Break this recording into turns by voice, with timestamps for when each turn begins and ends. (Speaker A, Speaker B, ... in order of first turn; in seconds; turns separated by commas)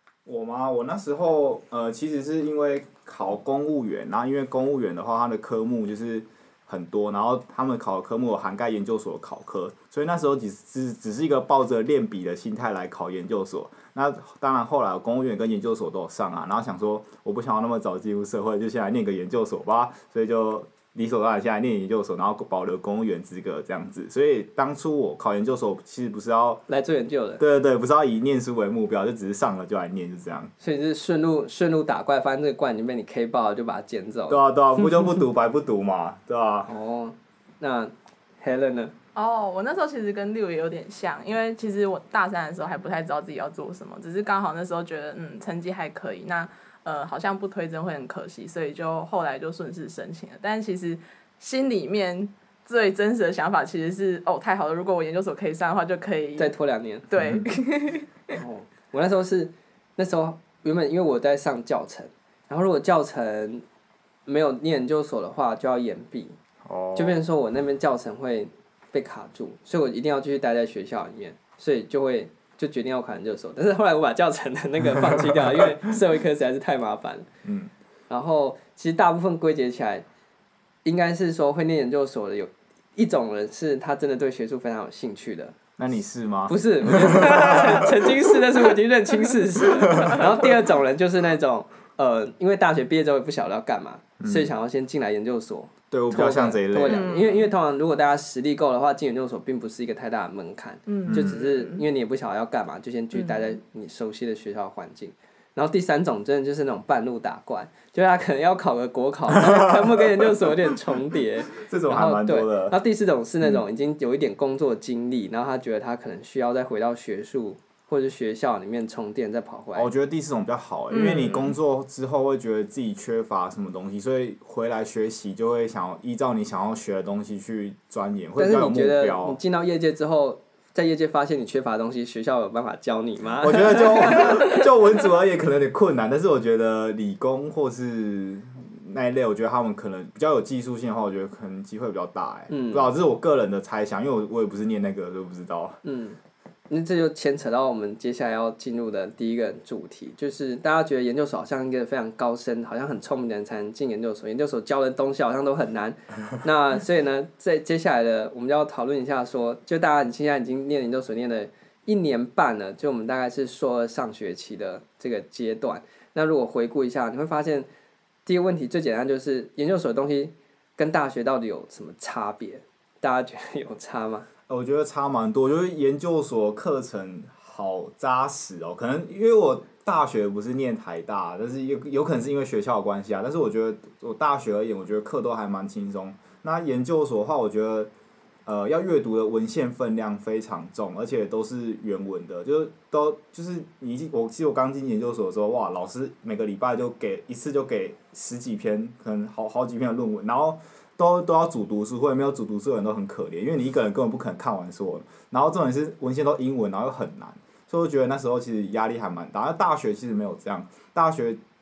Speaker A: 0.2-26.6, Speaker B: 26.7-27.4, Speaker A: 27.4-30.5, Speaker B: 30.6-34.4, Speaker A: 34.3-36.7, Speaker B: 36.7-38.9, Speaker C: 39.1-56.5, Speaker B: 56.4-57.1, Speaker C: 57.1-58.4, Speaker A: 57.2-57.5, Speaker B: 58.3-63.6, Speaker B: 64.2-66.3, Speaker A: 66.6-67.2, Speaker B: 66.9-77.3, Speaker A: 75.0-75.6, Speaker A: 77.4-77.7, Speaker B: 78.1-80.0, Speaker B: 80.8-85.5, Speaker A: 85.8-88.2, Speaker B: 86.5-119.9, Speaker A: 94.2-94.5, Speaker A: 95.9-97.1, Speaker C: 96.8-97.5, Speaker C: 100.9-101.8, Speaker A: 101.1-101.4, Speaker A: 109.4-110.7, Speaker A: 111.5-112.8, Speaker A: 119.7-129.4, Speaker C: 120.9-121.5, Speaker B: 128.3-134.3, Speaker A: 133.4-145.8, Speaker B: 142.5-142.9, Speaker B: 145.8-146.2, Speaker B: 146.7-167.7, Speaker B: 168.2-174.3, Speaker A: 174.5-187.9, Speaker A: 188.4-211.4